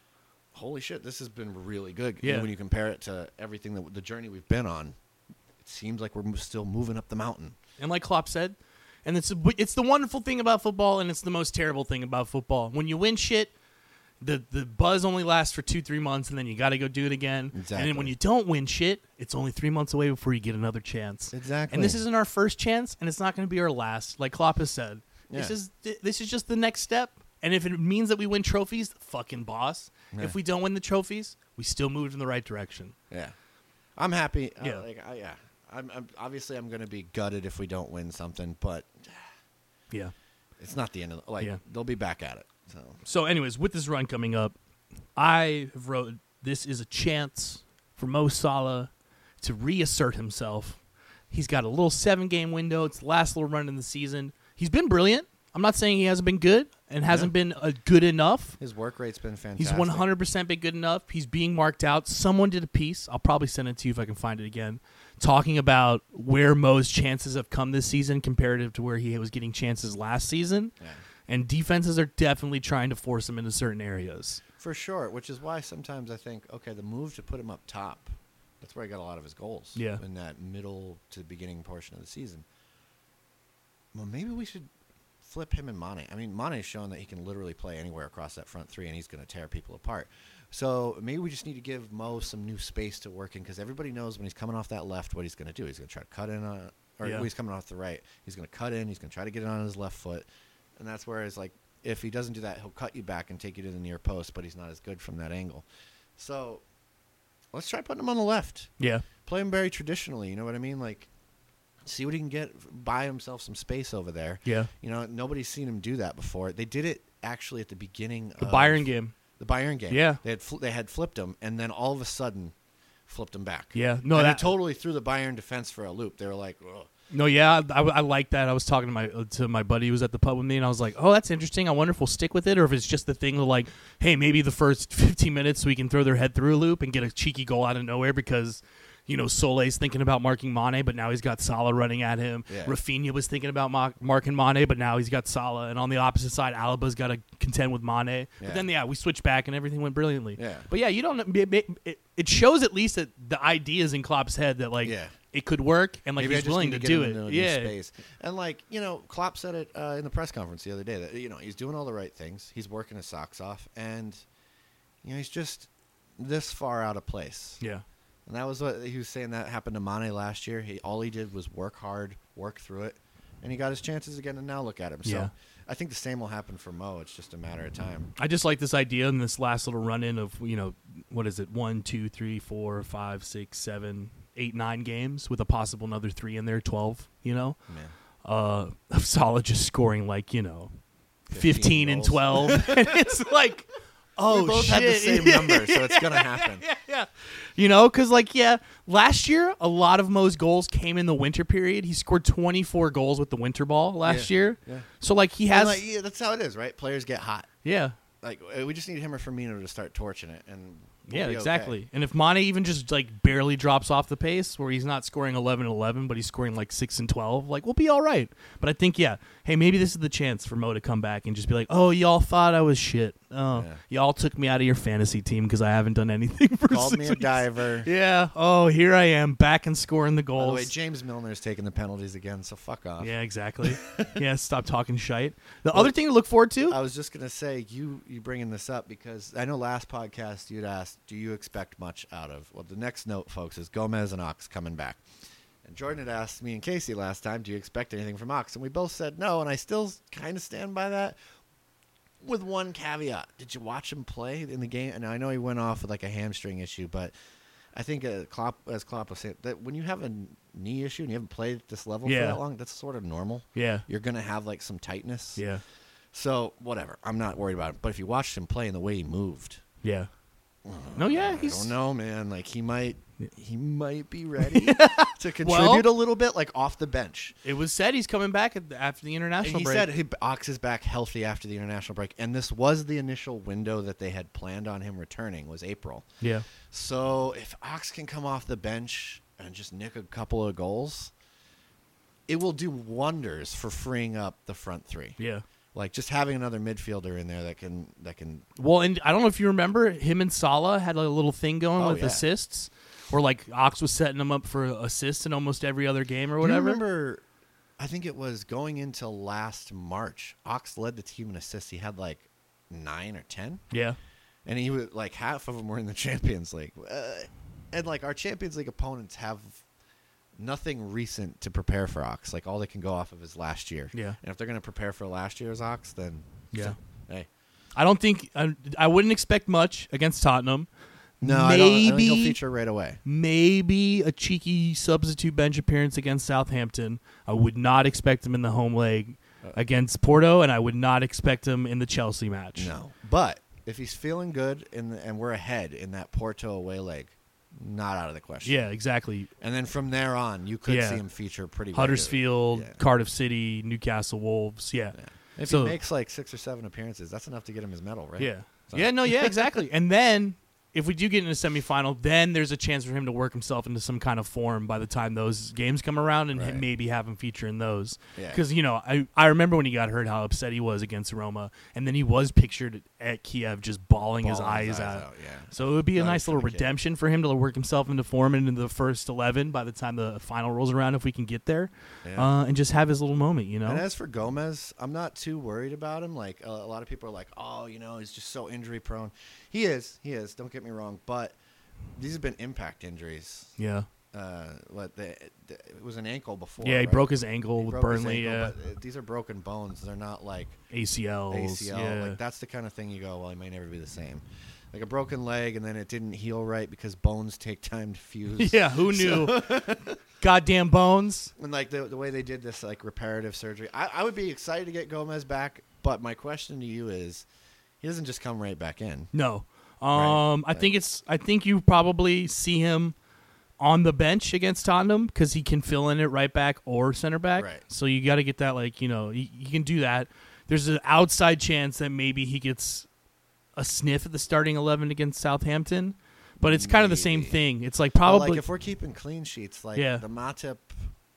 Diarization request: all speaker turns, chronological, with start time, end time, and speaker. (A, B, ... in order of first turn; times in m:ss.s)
0:00.5-0:05.0 A
0:02.2-0:02.5 B
0:05.6-0:07.6 A
0:07.8-0:13.5 B
0:14.2-0:32.9 B
0:17.5-0:18.1 A
0:21.3-0:22.0 A
0:25.3-0:25.6 A
0:30.1-0:30.4 A
0:34.0-0:39.2 A
0:40.6-0:43.0 A
0:43.0-0:44.5 B
0:45.2-0:48.9 B
0:49.4-0:58.6 B
0:58.6-1:00.1 A
0:59.6-1:10.7 B
1:11.3-1:14.4 B
1:14.6-1:22.4 A
1:19.7-1:20.0 B
1:23.9-1:24.7 A
1:25.2-1:40.2 A
1:37.0-1:37.3 B
1:40.8-1:45.6 A
1:46.2-1:46.6 A
1:47.5-1:48.7 A
1:48.8-1:49.0 B
1:49.2-1:51.1 A
1:51.8-2:02.5 A
1:54.4-1:54.7 B
1:58.4-1:59.1 B
1:59.9-2:00.2 B
2:03.1-2:06.9 A
2:03.7-2:04.5 B
2:07.1-2:37.7 B
2:22.5-2:22.8 A
2:28.4-2:28.7 A
2:30.4-2:30.7 A
2:34.8-2:35.1 A
2:36.2-2:44.2 A
2:45.0-2:47.6 A
2:48.3-2:58.1 A
2:55.0-2:55.3 B
2:58.2-3:07.6 B
3:07.7-3:07.9 A
3:08.2-3:10.7 B
3:11.3-3:13.0 A
3:11.3-3:25.8 B
3:14.3-3:16.6 A
3:24.0-3:24.9 A
3:25.5-3:27.5 A
3:27.6-3:28.0 B
3:28.2-3:31.8 A
3:31.1-3:50.7 B
3:43.5-3:43.8 A
3:46.7-3:47.9 A
3:50.4-3:53.1 A
3:53.0-3:56.8 B
3:53.6-3:54.2 A
3:56.7-4:05.0 A
4:05.6-4:11.2 A
4:12.2-4:17.1 A
4:17.7-4:25.4 A
4:22.0-4:22.4 B
4:23.5-4:23.8 B
4:25.4-4:25.6 B
4:26.1-4:29.6 A
4:29.8-4:30.1 B
4:30.6-4:37.4 A
4:31.0-4:31.7 B
4:34.4-4:35.9 B
4:37.4-4:39.9 B
4:39.4-4:46.1 A
4:46.2-4:46.4 B
4:46.7-4:51.1 A
4:52.3-4:55.2 A
4:55.2-4:55.4 B
4:55.7-4:58.4 A
4:58.6-5:06.8 B
5:01.8-5:02.2 A
5:06.4-5:07.2 A
5:07.8-5:13.6 A
5:13.7-5:14.0 B
5:14.4-5:19.6 A
5:20.4-5:27.3 A
5:27.8-5:30.7 B
5:31.2-5:32.4 B
5:31.2-5:33.0 A
5:33.0-5:42.7 B
5:42.6-5:48.6 A
5:48.4-5:49.3 B
5:49.4-5:52.8 A
5:50.6-5:51.0 B
5:51.7-5:55.8 B
5:55.0-5:59.6 A
5:58.2-6:23.8 B
6:06.3-6:06.6 A
6:08.2-6:08.4 A
6:14.2-6:16.7 A
6:22.0-6:22.3 A
6:23.6-6:31.4 A
6:32.0-6:33.6 A
6:33.6-6:33.9 B
6:34.1-6:40.6 A
6:36.6-6:38.5 B
6:40.7-6:42.2 B
6:41.3-6:50.0 A
6:48.4-6:49.6 B
6:50.2-6:51.3 B
6:51.4-6:57.2 A
6:57.8-6:59.1 A
6:59.1-7:02.9 B
6:59.9-7:00.7 A
7:03.6-7:12.9 B
7:07.4-7:07.6 A
7:13.6-7:18.4 B
7:16.4-7:17.4 A
7:18.0-7:20.8 A
7:19.7-7:20.0 B